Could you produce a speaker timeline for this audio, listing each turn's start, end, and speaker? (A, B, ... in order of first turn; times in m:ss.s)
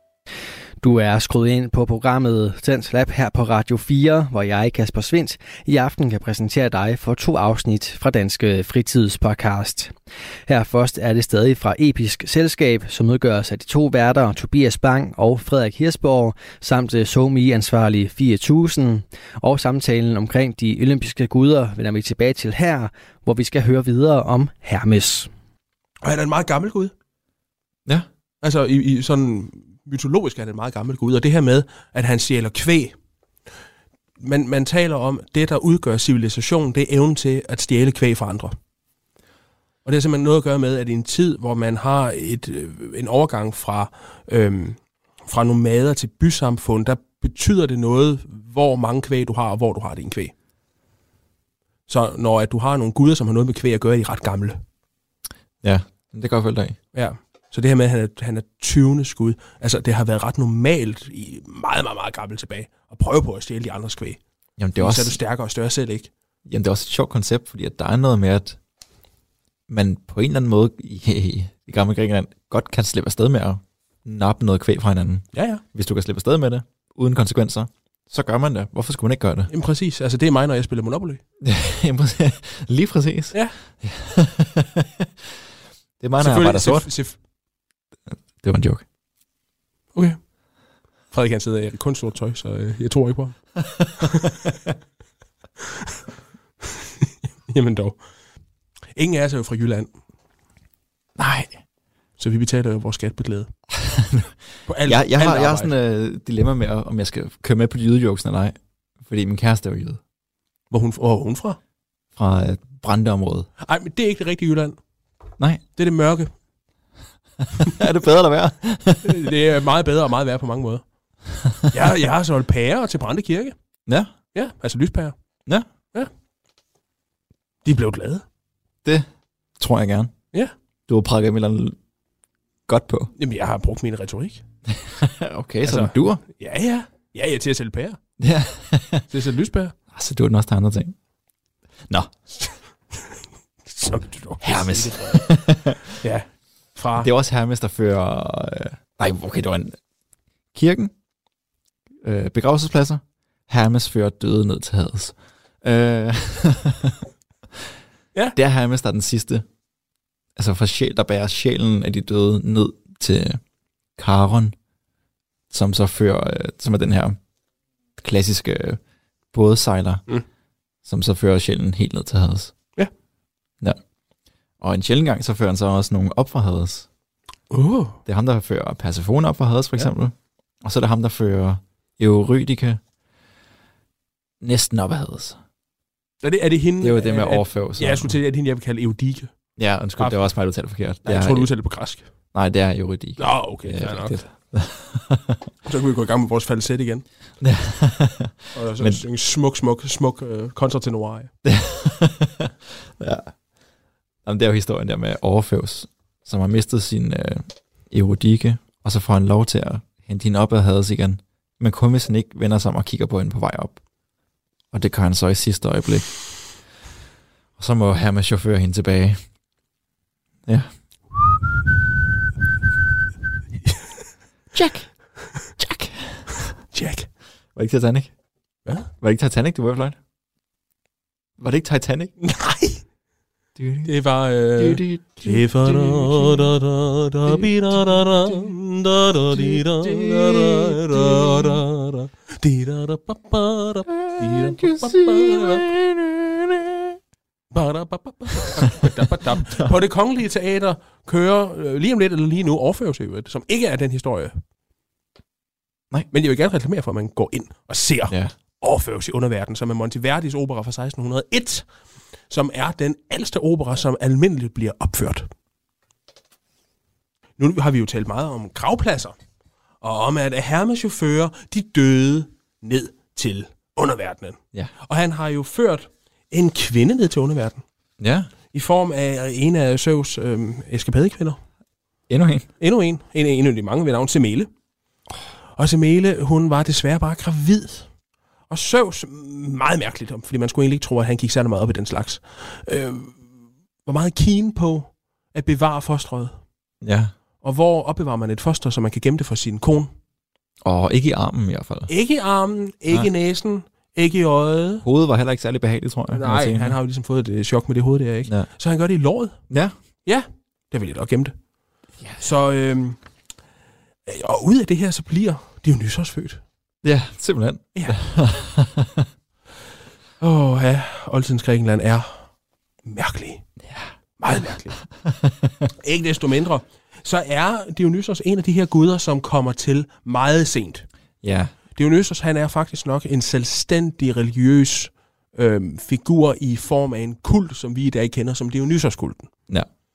0:00.8-0:09.9 A
0:10.5-0:25.3 A
0:26.0-0:26.9 B
0:28.4-0:32.9 B
0:34.2-0:38.6 B
0:39.8-0:50.3 B
0:51.9-0:54.6 B
0:55.6-0:56.8 C
0:56.9-1:04.2 B
1:04.6-1:05.2 C
1:04.8-1:06.1 B
1:06.5-1:08.6 C
1:09.7-1:19.5 C
1:15.3-1:15.6 B
1:19.5-1:21.2 B
1:21.4-1:25.1 C
1:26.0-1:26.9 C
1:26.2-1:27.2 B
1:28.1-1:28.8 C
1:31.1-1:34.4 B
1:37.5-1:38.0 B
1:38.9-1:39.9 B
1:41.2-1:41.6 C
1:42.2-1:43.5 B
1:43.7-1:50.0 C
1:44.7-1:45.7 B
1:50.7-1:51.6 B
1:52.1-1:53.5 C
1:53.6-1:54.8 B
1:55.8-1:56.3 B
1:57.6-1:59.2 C
1:59.0-2:00.8 B
2:01.7-2:03.5 B
2:03.9-2:04.1 C
2:04.3-2:05.1 B
2:07.6-2:08.2 B
2:09.6-2:10.1 C
2:10.9-2:11.8 C
2:12.7-2:13.1 C
2:13.2-2:14.4 B
2:14.7-2:16.2 C
2:15.6-2:18.0 B
2:18.2-2:19.1 C
2:19.1-2:19.8 B
2:19.9-2:20.9 C
2:23.7-2:25.3 B
2:24.4-2:25.9 C
2:26.0-2:27.1 B
2:26.9-2:29.8 C
2:30.5-2:30.9 C
2:32.0-2:37.0 C
2:38.4-2:39.4 C
2:40.4-2:43.4 C
2:44.0-2:44.5 C
2:45.5-2:47.2 C
2:48.0-2:48.8 C
2:49.3-2:50.0 C
2:50.8-2:52.5 C
2:54.6-2:56.9 C
2:57.5-2:58.0 B
2:58.1-3:02.8 C
3:04.4-3:05.4 C
3:06.2-3:09.3 B
3:06.8-3:08.2 C
3:09.6-3:11.5 C
3:10.0-3:10.3 B
3:11.0-3:12.1 B
3:12.3-3:15.4 C
3:13.2-3:14.2 B
3:15.6-3:17.0 B
3:17.4-3:19.0 C
3:18.5-3:21.3 B
3:21.4-3:23.3 C
3:24.2-3:33.8 C
3:34.7-3:36.2 C
3:37.6-3:39.2 C
3:44.5-3:46.5 C
3:46.7-3:47.1 B
3:47.5-3:48.1 C
3:49.0-3:50.0 C
3:51.4-3:52.1 C
3:52.2-3:52.8 B
3:53.6-3:53.9 C
3:53.8-4:05.7 B
3:54.6-3:56.5 C
3:57.2-3:58.5 C
3:59.3-4:01.6 C
4:03.9-4:07.0 C
4:07.5-4:14.4 B
4:08.4-4:08.9 C
4:16.1-4:21.7 B
4:18.1-4:18.3 C
4:22.3-4:25.3 B
4:27.4-4:29.2 B
4:29.8-4:37.6 B
4:38.0-4:38.3 C
4:38.5-4:41.4 B
4:42.1-4:42.5 C
4:42.6-4:44.5 B
4:45.6-4:47.9 B
4:48.5-4:53.2 B
4:53.8-4:56.4 B
4:56.8-4:57.1 C
4:57.4-4:59.9 B
5:00.6-5:01.9 C
5:01.9-5:04.8 B
5:04.8-5:06.8 C
5:06.1-5:09.4 B
5:10.0-5:11.3 B
5:12.0-5:12.2 C
5:12.2-5:13.0 B
5:14.0-5:16.4 B
5:16.8-5:19.1 C
5:17.8-5:18.0 B
5:20.2-5:22.2 B
5:22.8-5:23.5 B
5:23.6-5:23.9 C
5:24.2-5:24.8 B
5:25.0-5:25.7 C
5:25.8-5:30.9 B
5:31.2-5:31.5 C
5:31.8-5:39.3 B